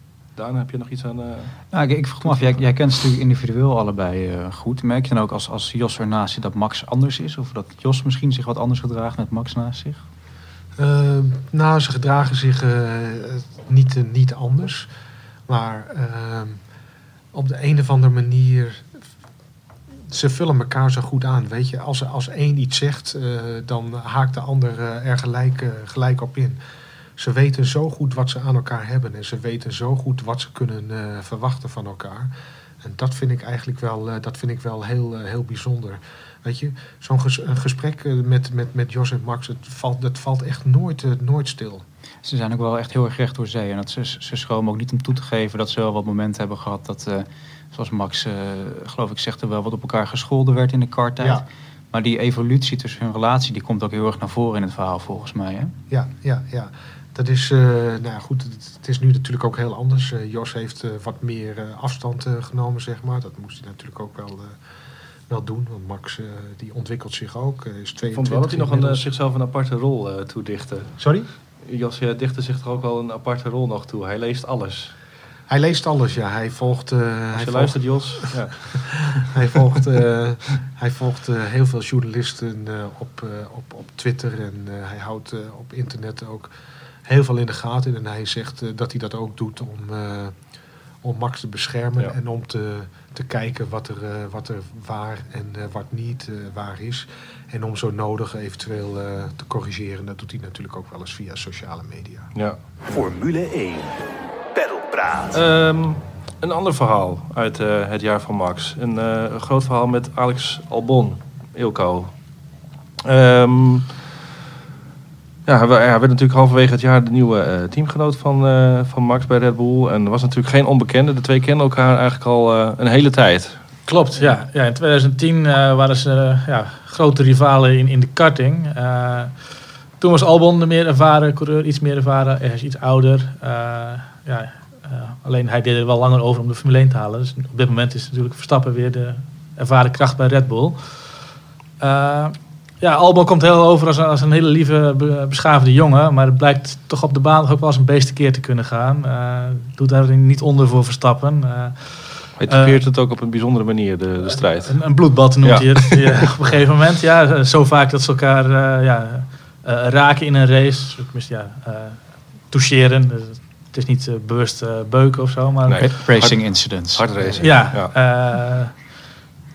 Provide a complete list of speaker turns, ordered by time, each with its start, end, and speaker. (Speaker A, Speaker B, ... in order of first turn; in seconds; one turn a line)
Speaker A: 0.3-1.6
Speaker B: 1.7-10.0
Speaker A: 2.2-2.6
Speaker C: 10.8-14.9
Speaker C: 15.5-16.6
Speaker C: 17.3-18.9
Speaker C: 20.1-26.6
Speaker C: 27.2-32.3
Speaker C: 32.8-41.8
Speaker B: 42.2-55.7
Speaker C: 55.9-64.6
Speaker C: 65.3-69.0
Speaker A: 68.1-74.9
Speaker C: 71.0-71.3
Speaker C: 75.5-86.5
Speaker A: 77.3-79.3
Speaker C: 87.0-90.5
Speaker C: 91.0-102.3
Speaker A: 102.3-103.0
Speaker D: 102.8-104.0
Speaker D: 104.5-105.4
Speaker A: 105.3-112.1
Speaker A: 113.0-114.0
Speaker A: 115.5-123.7
Speaker E: 123.9-141.2
Speaker E: 141.8-152.8
Speaker A: 152.4-156.2
Speaker E: 154.2-165.8
Speaker A: 165.7-167.9
Speaker B: 165.8-167.6
Speaker E: 167.4-168.9